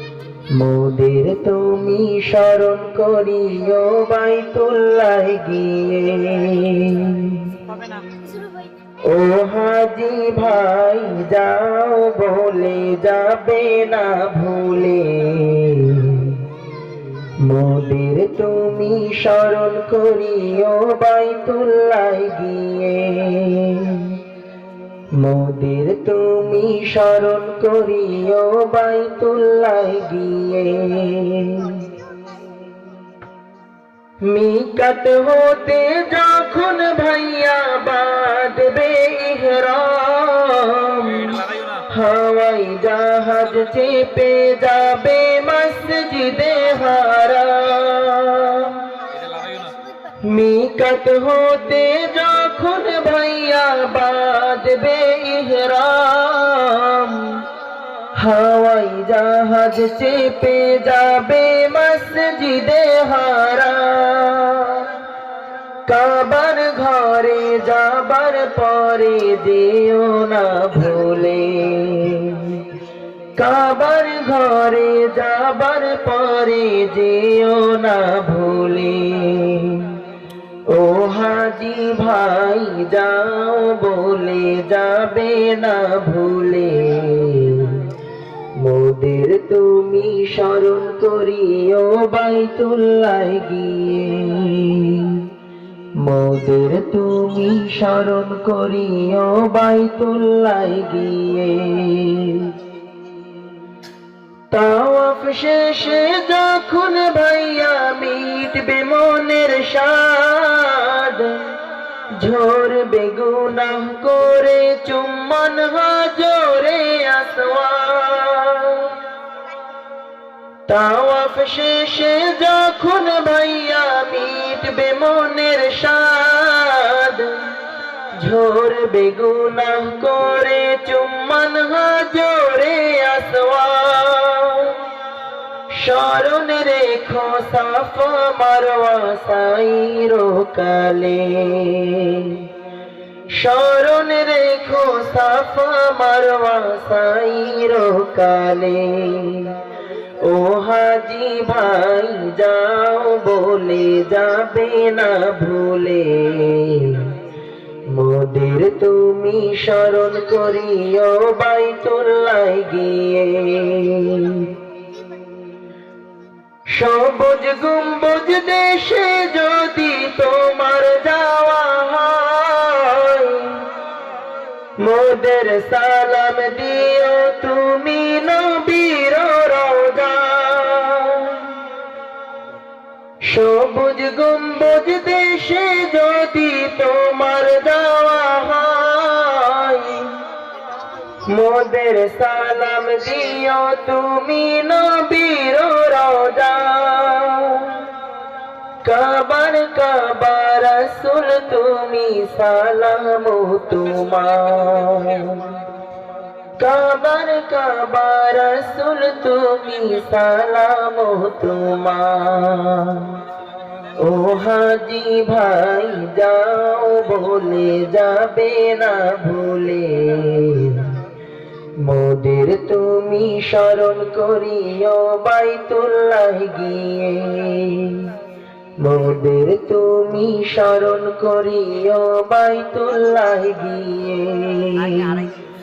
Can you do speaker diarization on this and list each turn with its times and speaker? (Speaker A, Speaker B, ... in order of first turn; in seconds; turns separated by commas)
Speaker A: 0.5-7.5, Speaker A: 9.1-16.4, Speaker A: 17.4-24.1, Speaker A: 25.2-31.9, Speaker A: 34.2-48.8, Speaker A: 50.3-57.4, Speaker A: 58.2-64.9, Speaker A: 65.9-72.7, Speaker A: 73.4-79.9, Speaker A: 80.7-87.9, Speaker A: 88.6-95.2, Speaker A: 96.0-102.5, Speaker A: 104.5-111.5, Speaker A: 112.2-119.0, Speaker A: 120.7-127.5, Speaker A: 128.1-134.8, Speaker A: 135.7-142.5, Speaker A: 143.3-149.6, Speaker A: 150.2-157.1, Speaker A: 157.9-164.5, Speaker A: 166.7-173.6, Speaker A: 174.8-181.5, Speaker A: 183.2-190.1, Speaker A: 191.2-197.9, Speaker A: 198.8-205.4, Speaker A: 206.6-213.2, Speaker A: 214.0-220.9, Speaker A: 221.8-228.1, Speaker A: 228.8-235.3